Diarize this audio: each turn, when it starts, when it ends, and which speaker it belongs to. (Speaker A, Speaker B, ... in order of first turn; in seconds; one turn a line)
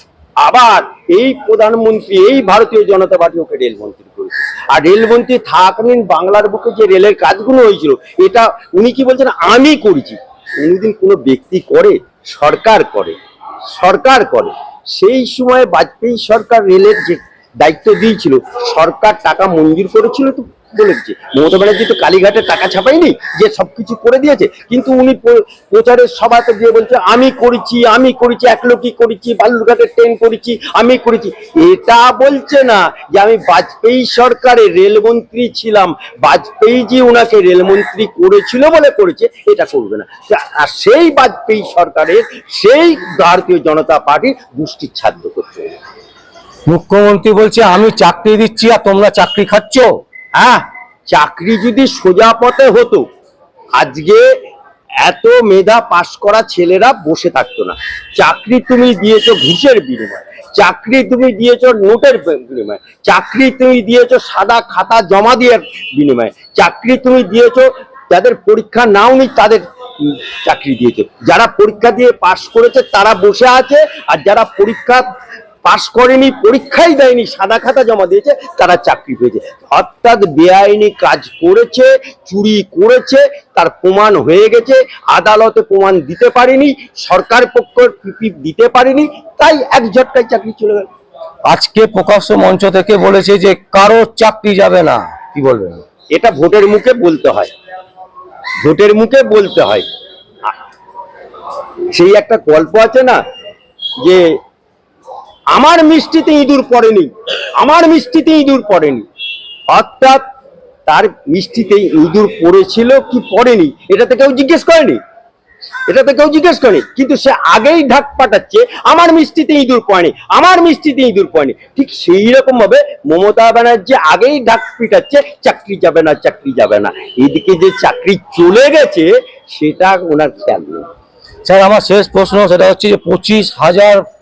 Speaker A: 0.4-13.2
Speaker A: 13.7-45.7
Speaker B: 46.7-49.9
Speaker A: 50.4-53.0
Speaker A: 53.8-54.3
Speaker A: 55.0-75.1
Speaker A: 75.6-90.9
Speaker B: 91.5-95.8
Speaker A: 96.2-97.5
Speaker A: 98.6-99.8
Speaker A: 101.9-103.2
Speaker A: 104.0-104.3
Speaker A: 105.5-109.1
Speaker A: 109.7-110.2
Speaker A: 110.9-115.0
Speaker A: 115.9-130.9
Speaker B: 131.4-134.0